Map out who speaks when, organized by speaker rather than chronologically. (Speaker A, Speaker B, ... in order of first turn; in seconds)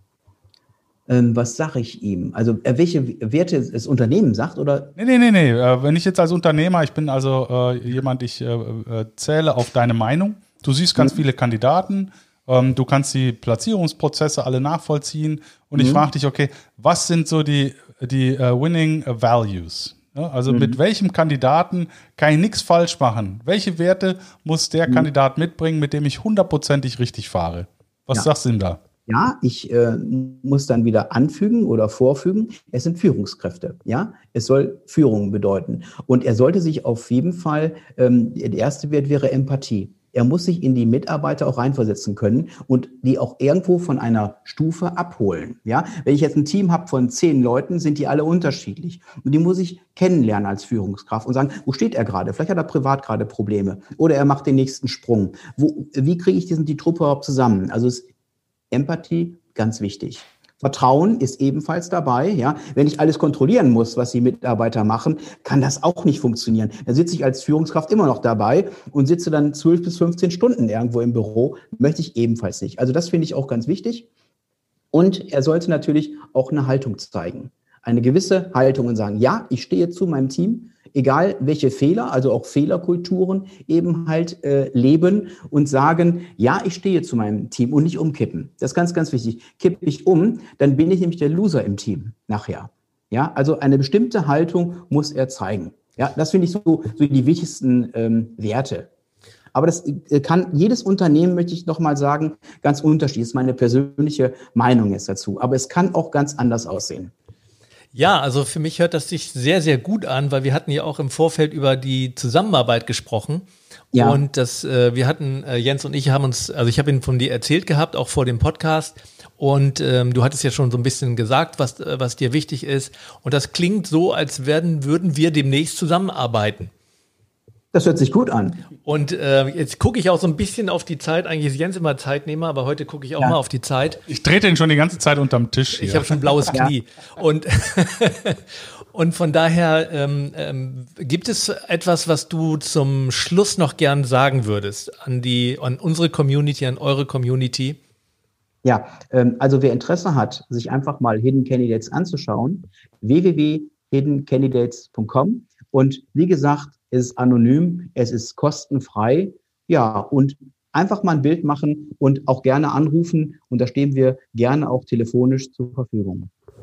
Speaker A: 1.1-4.9, 10.9-11.2, 15.8-16.1, 20.5-20.8, 29.1-58.1, 58.7-74.1, 74.9-98.9, 99.5-107.1, 113.9-114.2, 127.7-128.7, 148.6-166.3
Speaker B: 5.0-28.8, 134.1-136.2
Speaker C: 107.9-126.7, 128.8-134.0, 135.7-147.8